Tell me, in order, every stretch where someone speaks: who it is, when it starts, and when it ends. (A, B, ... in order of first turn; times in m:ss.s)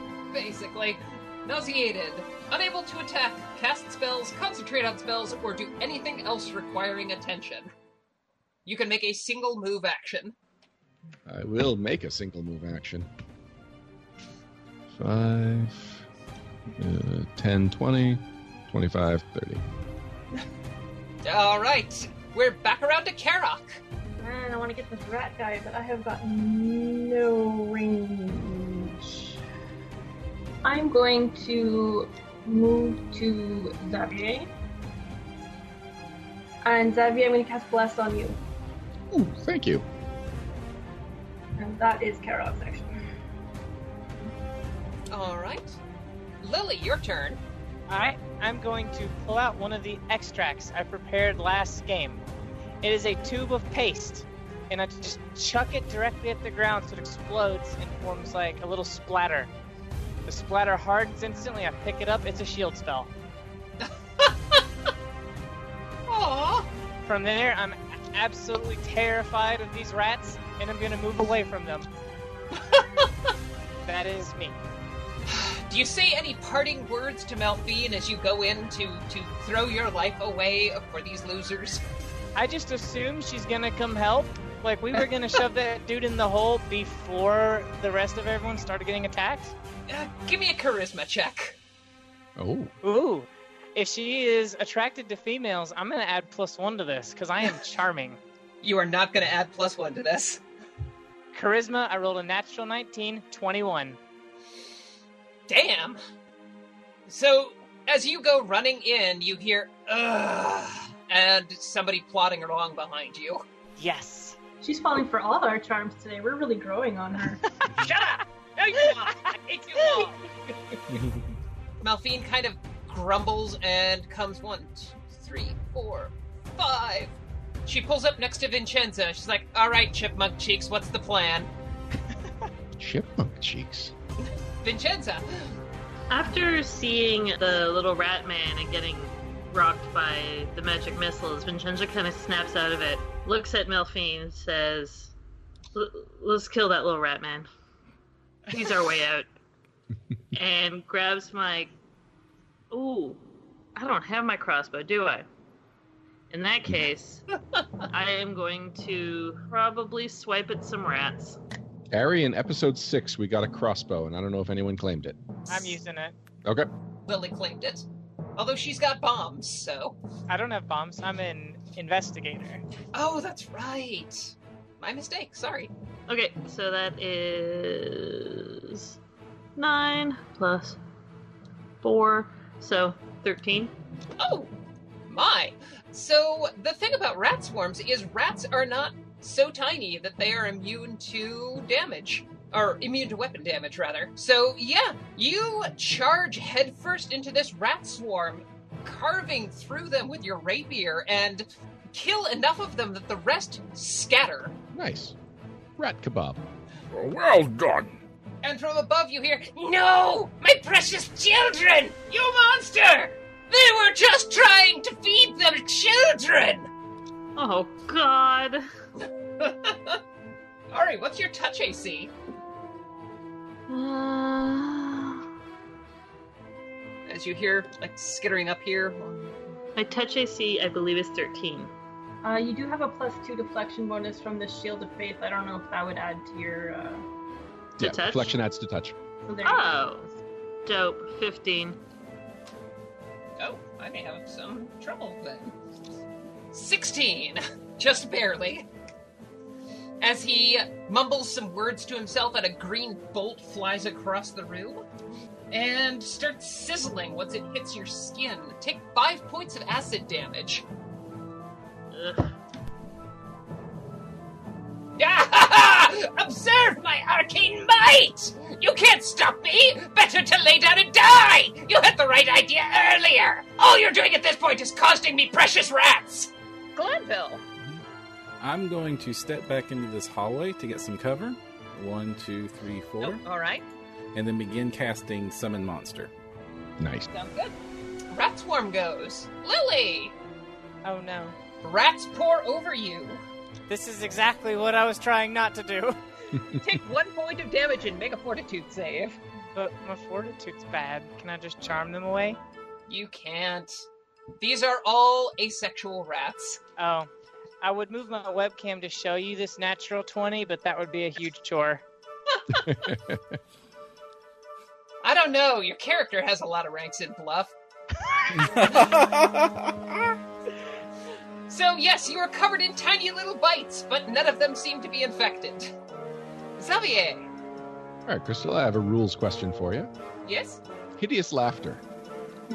0:00.3-0:07.7 A
0:08.6-0:10.3 A
0:11.2-0:13.1 B
0:14.9-0:16.0 B
0:16.8-0:19.6 B
0:21.2-0:23.8 A
0:24.2-0:29.4 C
0:30.6-0:34.5 C
0:36.6-0:38.4 C
0:39.1-0:39.8 B
0:41.6-0:43.0 C
0:45.1-0:45.8 A
0:46.4-0:47.4 A
0:47.9-0:52.2 D
0:52.8-0:59.5 D
1:00.2-1:03.1 D
1:03.8-1:04.6 A
1:06.1-1:06.7 A
1:07.0-1:11.9 D
1:12.5-1:13.3 A
1:13.8-1:14.6 D
1:15.3-1:21.8 A
1:22.4-1:29.5 D
1:29.9-1:31.6 A
1:32.4-1:32.7 B
1:32.8-1:38.2 D
1:38.6-1:40.4 A
1:41.3-1:44.0 D
1:45.5-1:46.0 A
1:47.1-1:53.4 A
1:53.8-1:54.4 D
1:54.6-1:57.4 C
1:57.5-1:57.8 D
1:57.8-2:00.2 A
2:00.9-2:01.2 E
2:01.8-2:07.1 A
2:07.6-2:11.5 A
2:12.8-2:13.9 B
2:14.6-2:15.5 A
2:16.1-2:25.1 F
2:25.7-2:27.5 F
2:28.5-2:29.3 F
2:30.3-2:31.7 F
2:32.7-2:33.2 F
2:33.8-2:35.2 F
2:36.3-2:37.2 F
2:37.8-2:41.4 F
2:41.9-2:45.2 B
2:45.5-2:45.8 A
2:45.5-2:46.1 D
2:47.1-2:50.0 A
2:50.3-2:52.6 D
2:52.9-2:55.7 A
2:56.1-2:59.0 F
2:59.6-3:00.8 F
3:01.8-3:03.7 F
3:04.2-3:04.5 A
3:05.1-3:24.5 A
3:24.7-3:25.1 B
3:25.8-3:26.4 B
3:26.9-3:28.0 E
3:28.4-3:36.7 A
3:37.4-3:38.6 F
3:39.0-3:40.0 A
3:40.7-3:42.1 A
3:43.7-3:45.2 F
3:47.1-3:49.3 A
3:49.8-3:51.7 F
3:52.2-3:57.0 C
3:57.8-3:58.9 B
3:57.8-3:58.3 F
3:59.2-4:00.2 C
3:59.4-4:00.1 F
4:00.6-4:01.8 F
4:03.4-4:05.5 A
4:06.5-4:08.6 A
4:10.0-4:14.8 A
4:15.5-4:20.6 A
4:21.9-4:22.3 F
4:25.0-4:37.4 A
4:38.4-4:43.2 E
4:43.0-4:43.7 A
4:44.1-4:46.1 E
4:46.8-4:47.1 B
4:47.1-4:47.6 A
4:48.1-4:50.1 A
4:50.8-4:51.4 D
4:51.6-4:53.2 A
4:53.7-4:56.0 D
4:56.6-4:59.2 A
4:59.5-5:02.4 D
5:02.9-5:03.9 A
5:04.4-5:06.6 A
5:06.8-5:07.1 D
5:07.6-5:11.8 D
5:12.5-5:13.4 B
5:15.0-5:17.5 A
5:18.4-5:20.1 E
5:21.5-5:25.7 A
5:26.6-5:27.3 A
5:28.0-5:29.9 B
5:30.2-5:30.6 A
5:31.0-5:31.8 B